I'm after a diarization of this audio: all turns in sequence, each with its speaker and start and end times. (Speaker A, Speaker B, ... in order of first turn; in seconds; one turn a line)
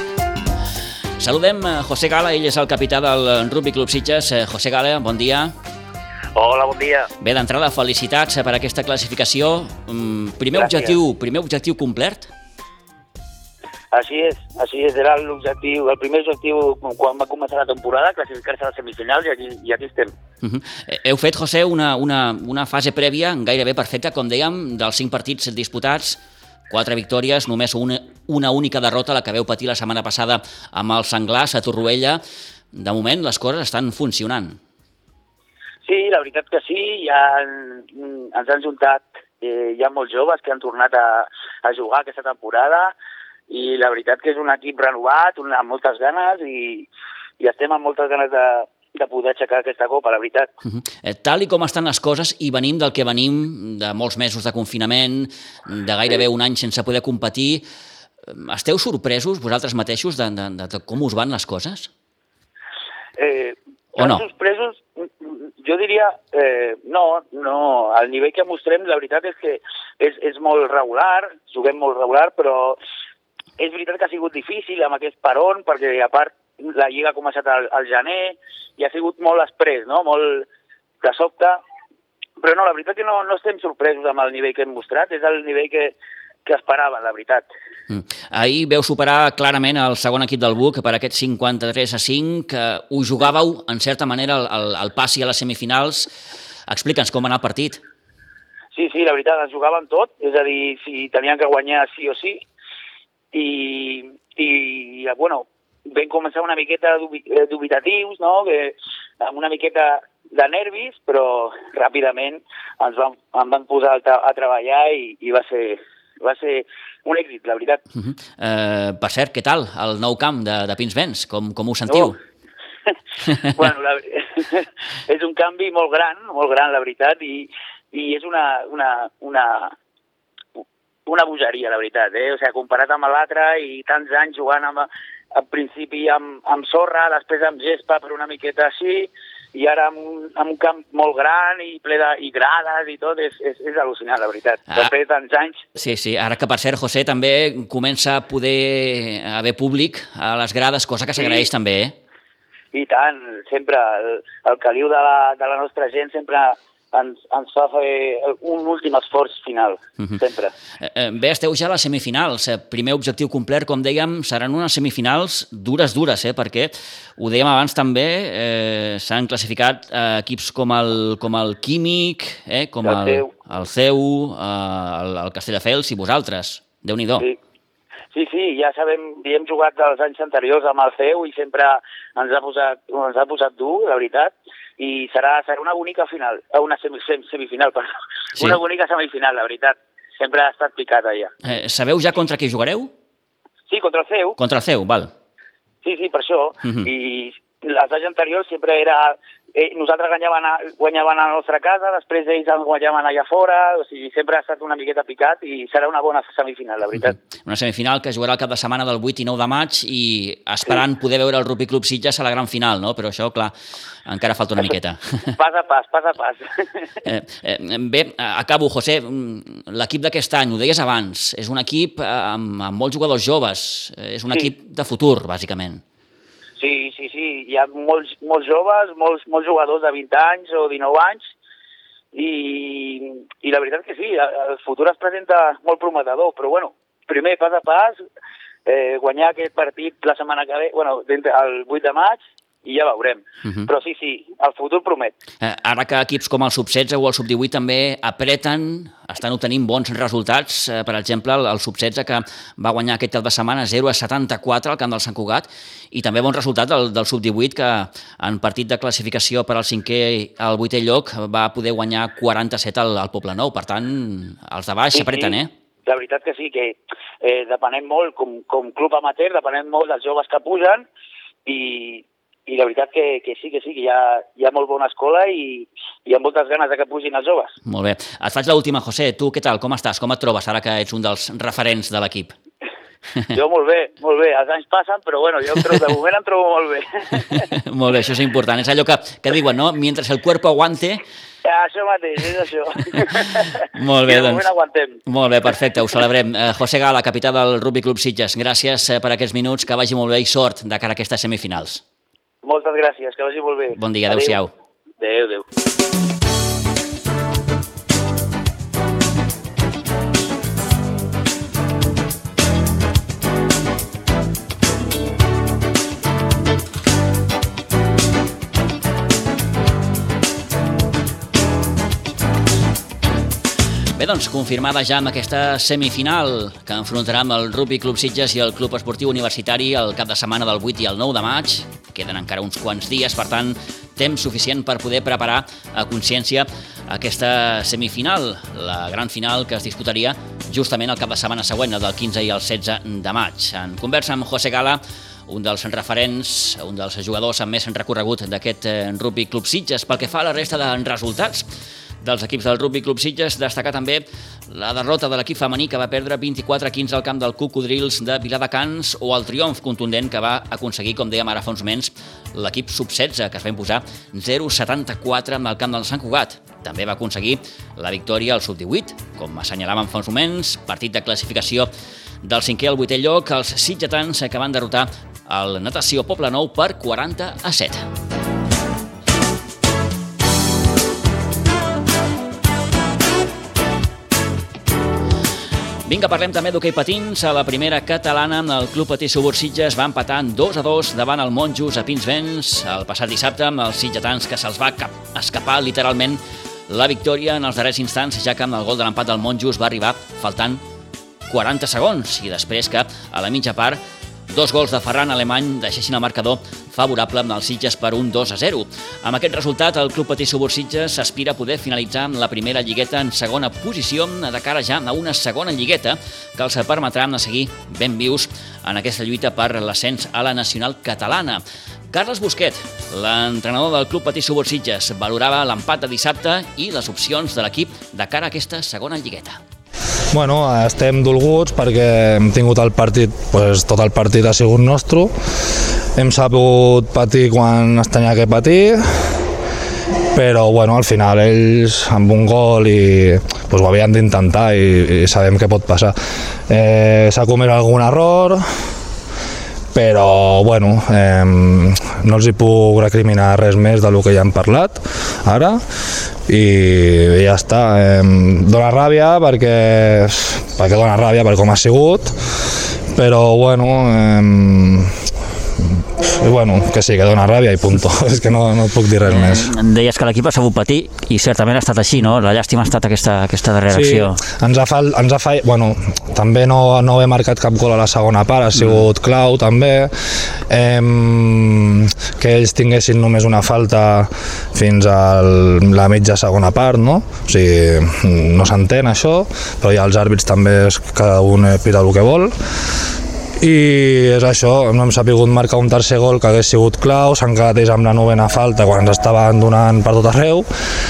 Speaker A: 1.2-5.5
Speaker B: 6.3-7.1
Speaker A: 7.2-12.3
Speaker B: 10.5-11.0
Speaker B: 13.9-20.1
Speaker A: 20.4-26.2
Speaker A: 26.7-32.2
Speaker A: 32.7-34.6
Speaker B: 35.9-42.9
Speaker B: 43.5-46.9
Speaker B: 47.4-50.5
Speaker A: 50.6-57.6
Speaker A: 58.3-61.9
Speaker B: 63.2-72.8
Speaker A: 64.0-64.2
Speaker B: 73.6-80.5
Speaker B: 81.0-81.6
Speaker B: 82.4-87.5
Speaker A: 87.9-96.1
Speaker A: 96.7-97.8
Speaker B: 98.7-102.4
Speaker B: 103.3-117.8
Speaker A: 118.0-122.2
Speaker B: 123.5-129.7
Speaker B: 131.1-145.6
Speaker A: 145.8-151.9
Speaker B: 151.2-151.5
Speaker B: 152.7-160.5
Speaker A: 160.8-177.3
Speaker B: 172.8-173.3
Speaker B: 178.1-191.3
Speaker A: 191.4-192.9
Speaker B: 193.7-194.4
Speaker A: 194.4-195.1
Speaker B: 195.8-207.2
Speaker A: 206.9-213.5
Speaker A: 214.1-215.4
Speaker B: 215.4-216.9
Speaker A: 217.1-225.8
Speaker B: 226.6-231.3
Speaker B: 232.1-238.0
Speaker B: 238.7-245.2
Speaker A: 245.4-265.5
Speaker B: 264.9-270.9
Speaker B: 271.4-277.6
Speaker A: 277.7-282.3
Speaker B: 283.3-287.4
Speaker A: 287.2-291.0
Speaker B: 291.4-295.0
Speaker A: 293.6-294.5
Speaker A: 295.1-301.8
Speaker B: 302.4-304.4
Speaker A: 303.8-304.5
Speaker B: 305.0-305.4
Speaker A: 324.0-351.5
Speaker A: 352.0-371.7
Speaker A: 372.2-377.9
Speaker A: 385.9-400.6
Speaker A: 401.3-429.4
Speaker C: 430.1-435.1
Speaker C: 435.9-439.1
Speaker C: 440.1-445.9
Speaker C: 446.5-448.4
Speaker C: 449.7-455.6
Speaker C: 456.3-462.1
Speaker C: 462.9-465.0
Speaker C: 466.0-469.5
Speaker A: 469.1-474.2
Speaker C: 473.7-479.9
Speaker A: 478.6-478.8
Speaker C: 480.5-492.3
Speaker C: 493.4-500.5